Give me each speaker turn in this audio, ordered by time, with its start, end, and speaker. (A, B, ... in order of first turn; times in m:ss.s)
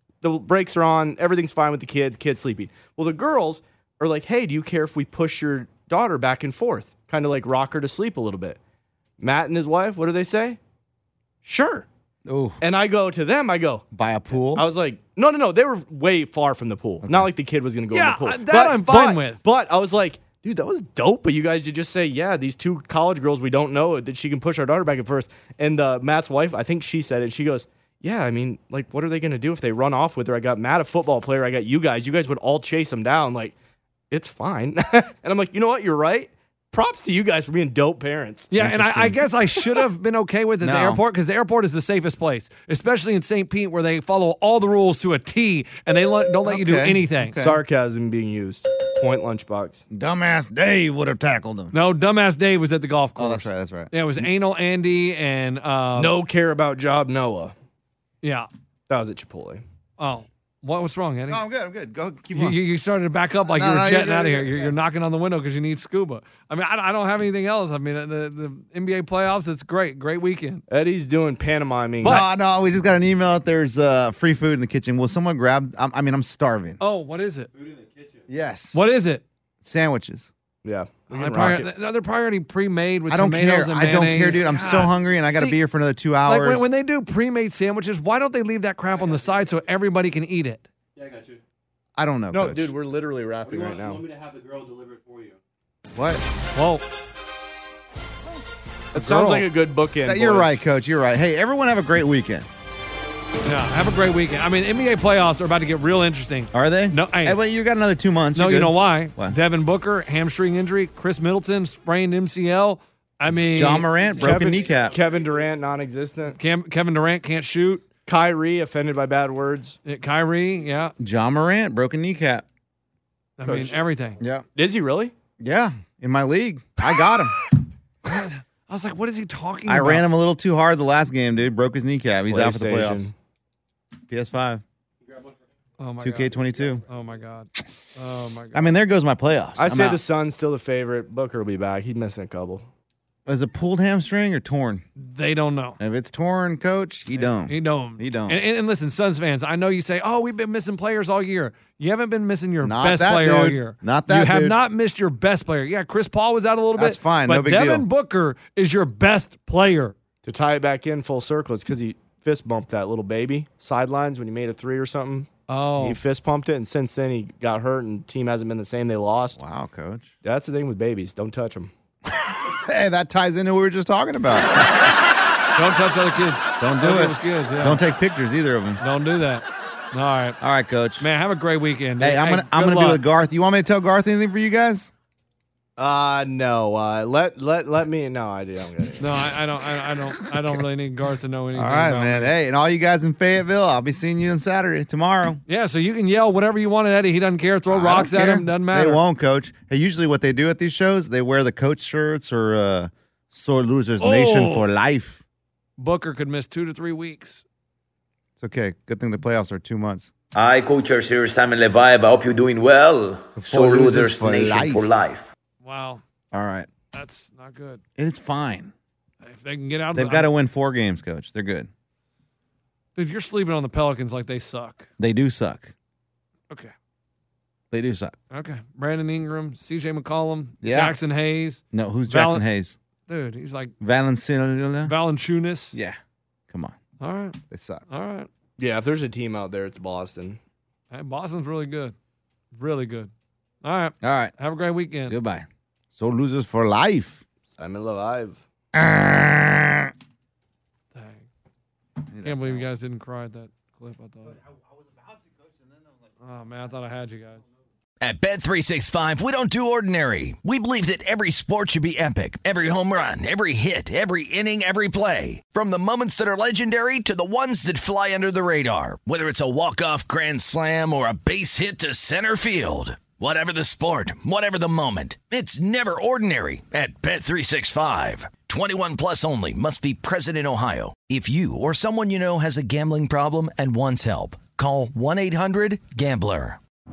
0:00.2-0:08.6 A
0:09.2-0:10.6 A
0:11.4-0:11.9 A
0:12.3-0:12.6 B
0:12.6-0:13.8 A
0:13.9-0:14.6 B
0:14.5-0:33.6 A
0:17.9-0:19.4 C
0:34.1-0:38.5 A
0:38.5-0:47.4 C
0:38.6-0:39.2 B
0:40.6-0:41.0 B
0:46.5-0:47.6 B
0:47.4-0:49.8 A
0:49.9-0:51.8 B
0:51.7-0:56.2 C
0:53.2-0:53.9 B
0:56.0-0:57.5 A
0:58.2-0:58.5 C
0:58.9-0:59.6 A
1:00.0-1:01.4 C
1:01.3-1:02.6 B
1:02.3-1:10.6 C
1:03.5-1:04.7 B
1:10.7-1:12.3 A
1:12.0-1:16.8 B
1:16.8-1:17.5 C
1:18.3-1:18.8 B
1:18.7-1:19.2 C
1:19.6-1:20.3 B
1:20.6-1:21.7 A
1:21.1-1:25.6 C
1:23.1-1:26.6 B
1:26.2-1:30.6 C
1:32.0-1:32.7 B
1:32.3-1:34.1 A
1:34.9-1:35.3 B
1:36.0-1:36.2 B
1:36.6-1:36.8 C
1:38.9-1:40.6 A
1:39.0-1:39.4 C
1:40.0-1:42.5 B
1:43.4-1:47.4 C
1:46.5-1:49.4 B
1:48.4-1:53.9 C
1:53.5-1:55.0 B
1:54.2-1:56.4 A
1:56.4-1:57.9 C
1:58.1-1:59.8 A
1:59.8-2:01.0 C
2:01.0-2:02.4 B
2:03.4-2:04.2 C
2:03.4-2:03.8 A
2:04.2-2:04.4 B
2:04.6-2:05.1 A
2:05.4-2:07.4 B
2:08.1-2:10.1 C
2:09.7-2:13.1 B
2:12.3-2:13.1 A
2:14.1-2:14.6 B
2:15.8-2:18.7 C
2:16.0-2:16.8 B
2:18.5-2:20.0 B
2:19.6-2:22.6 A
2:23.3-2:24.8 B
2:25.0-2:25.8 C
2:25.8-2:28.4 B
2:27.1-2:40.0 C
2:32.6-2:34.6 B
2:36.8-2:37.9 B
2:40.2-2:49.4 A
2:45.5-2:46.0 C
2:49.4-2:50.1 B
2:50.2-2:51.7 A
2:52.1-2:54.9 B
2:55.6-2:57.8 C
2:56.6-2:58.8 B
2:58.8-3:00.4 C
3:00.4-3:01.1 B
3:01.0-3:03.0 C
3:02.0-3:04.9 B
3:05.8-3:09.3 A
3:09.0-3:12.3 C
3:11.6-3:15.4 B
3:15.5-3:19.0 C
3:17.7-3:25.2 B
3:24.0-3:24.7 C
3:25.8-3:27.4 C
3:28.4-3:30.1 B
3:30.3-3:35.3 D
3:33.4-3:34.9 B
3:35.6-3:36.0 C
3:36.3-3:36.7 B
3:36.9-3:37.8 C
3:38.0-3:38.7 B
3:39.2-3:40.3 C
3:39.9-3:41.7 B
3:43.0-3:44.9 C
3:45.0-3:45.7 B
3:47.7-3:48.2 B
3:48.3-3:52.4 C
3:50.6-3:51.0 B
3:51.7-3:52.8 B
3:53.1-3:53.7 C
3:53.8-3:55.0 B
3:54.8-3:55.8 C
3:55.7-3:56.0 B
3:56.5-3:56.8 B
3:57.0-3:57.4 C
3:57.5-3:57.8 B
3:57.9-3:58.3 C
3:58.6-4:00.4 A
4:00.9-4:02.0 C
4:02.6-4:03.1 C
4:03.6-4:05.2 C
4:04.0-4:04.3 B
4:05.1-4:07.2 B
4:07.6-4:08.4 A
4:08.7-4:09.9 B
4:10.9-4:11.3 C
4:12.1-4:12.7 B
4:12.2-4:14.4 C
4:14.3-4:15.8 B
4:16.2-4:17.4 C
4:18.0-4:46.6 E